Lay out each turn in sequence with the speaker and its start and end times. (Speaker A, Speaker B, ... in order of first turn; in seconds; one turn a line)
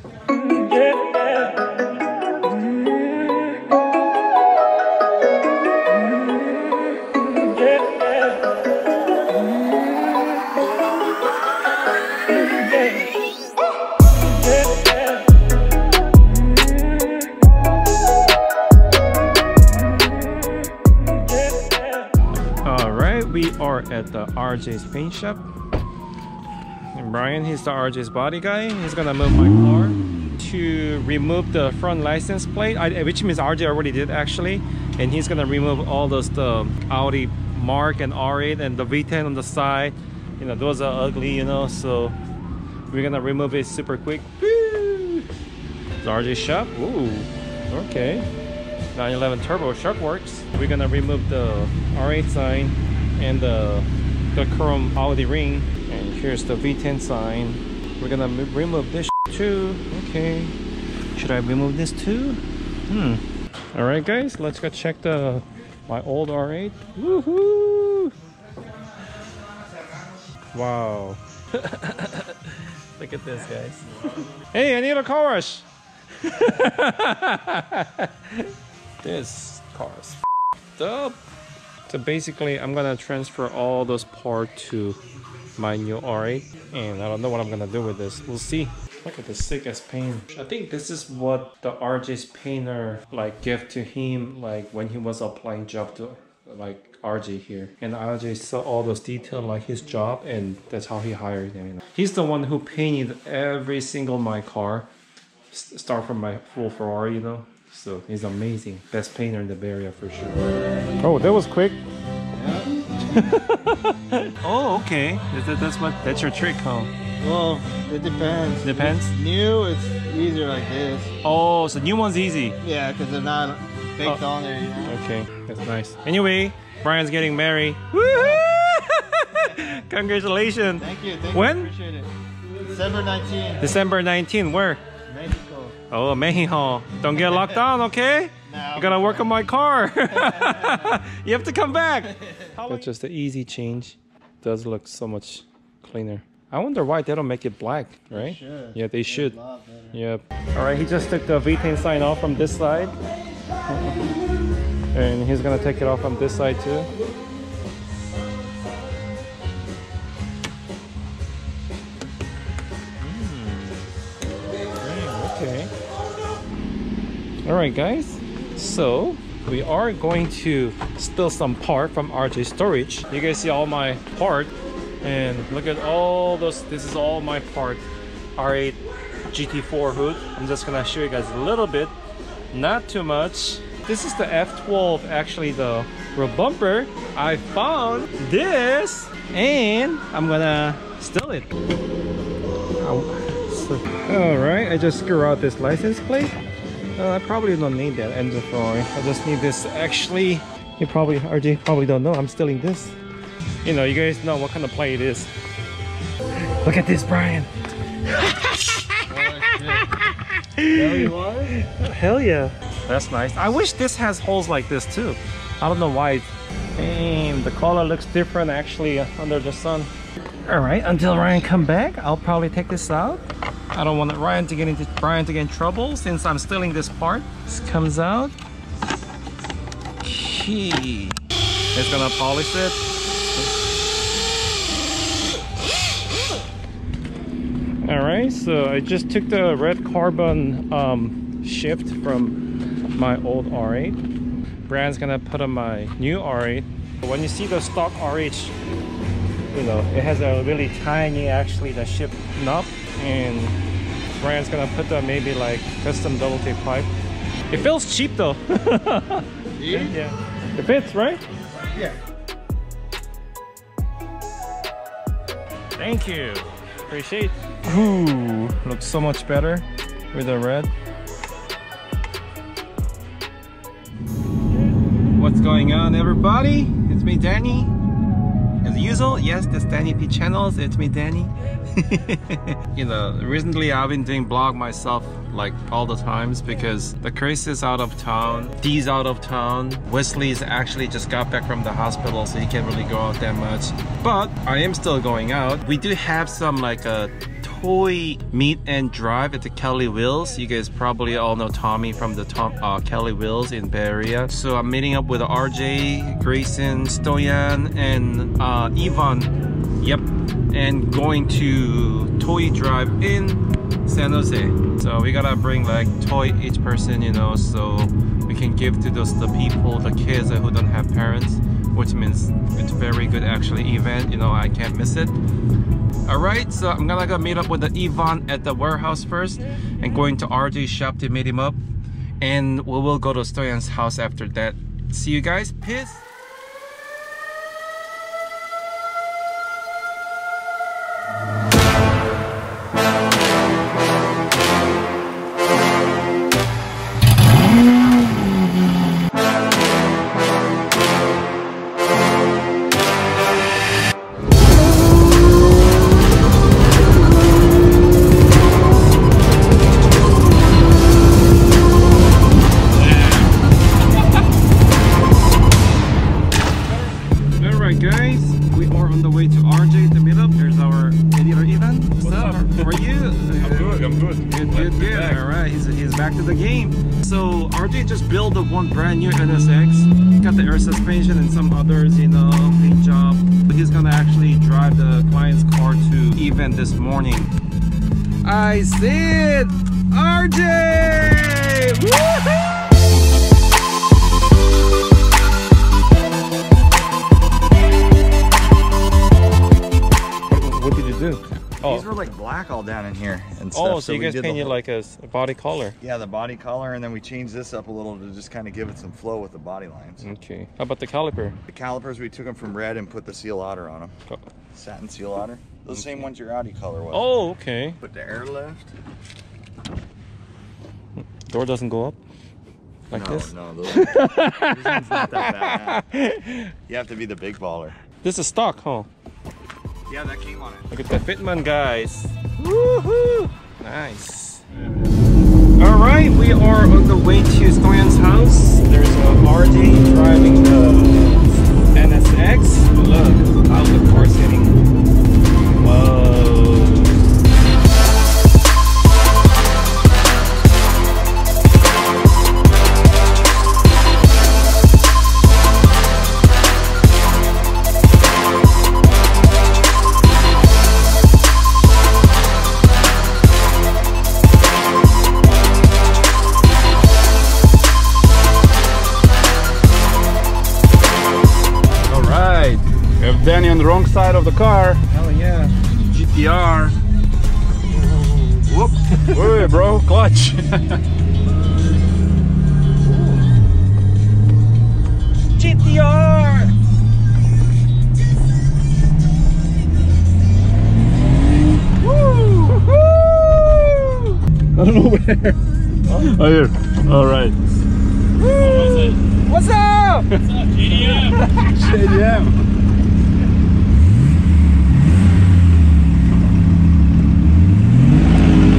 Speaker A: 0.3-1.2
Speaker A: 2.8-3.5
Speaker A: 22.6-25.4
Speaker A: 26.9-42.2
Speaker A: 42.9-45.3
Speaker A: 46.0-48.3
Speaker A: 48.9-60.5
Speaker A: 61.1-68.1
Speaker A: 70.5-75.6
Speaker A: 76.2-80.2
Speaker A: 80.8-81.2
Speaker A: 81.9-85.0
Speaker A: 85.5-104.9
Speaker A: 105.5-110.4
Speaker A: 111.0-111.8
Speaker B: 112.3-112.7
Speaker A: 113.1-116.9
Speaker B: 117.2-121.1
Speaker A: 118.6-119.1
Speaker A: 121.2-122.6
Speaker B: 122.6-125.0
Speaker A: 124.8-131.7
Speaker B: 128.1-128.4
Speaker B: 130.8-133.6
Speaker A: 133.6-134.8
Speaker B: 135.1-135.8
Speaker A: 135.9-149.4
Speaker B: 138.5-139.4
Speaker B: 140.2-140.9
Speaker B: 148.1-149.9
Speaker A: 149.9-153.0
Speaker A: 153.7-154.1
Speaker A: 154.9-156.9
Speaker A: 163.0-163.8
Speaker A: 164.8-165.7
Speaker A: 167.4-177.8
Speaker A: 178.3-181.9
Speaker A: 182.5-191.5
Speaker A: 192.8-196.3
Speaker A: 196.9-202.9
Speaker A: 203.6-205.3
Speaker A: 206.3-219.9
Speaker B: 209.1-209.9
Speaker B: 210.7-211.6
Speaker A: 220.4-228.3
Speaker A: 230.0-231.2
Speaker A: 231.7-232.8
Speaker A: 237.8-242.4
Speaker A: 242.9-244.0
Speaker A: 244.7-248.6
Speaker A: 249.5-253.6
Speaker A: 254.1-256.9
Speaker A: 257.5-261.2
Speaker B: 259.6-259.9
Speaker A: 265.7-270.7
Speaker A: 275.1-277.7
Speaker A: 278.6-325.1
Speaker A: 326.0-331.6
Speaker A: 332.2-336.0
Speaker A: 367.3-387.3
Speaker C: 373.4-375.2
Speaker A: 388.2-392.6
Speaker A: 400.3-401.9
Speaker D: 401.6-404.6
Speaker A: 403.5-405.8
Speaker D: 405.8-410.1
Speaker A: 410.0-411.4
Speaker D: 411.5-413.9
Speaker D: 414.5-417.2
Speaker A: 415.7-416.1
Speaker A: 416.9-417.8
Speaker D: 417.8-418.7
Speaker A: 421.2-422.0
Speaker A: 422.9-426.5
Speaker D: 422.9-425.8
Speaker D: 426.7-427.8
Speaker A: 428.0-428.9
Speaker D: 429.9-430.7
Speaker A: 430.7-434.4
Speaker A: 435.6-444.6
Speaker A: 445.6-447.0
Speaker C: 471.9-474.8
Speaker A: 474.9-475.6
Speaker C: 475.9-476.8
Speaker A: 478.3-479.5
Speaker C: 478.9-480.8
Speaker A: 482.9-483.2
Speaker A: 485.3-486.5
Speaker A: 491.8-494.2
Speaker C: 494.5-497.4
Speaker A: 495.9-496.1
Speaker A: 498.2-501.6
Speaker C: 501.5-502.4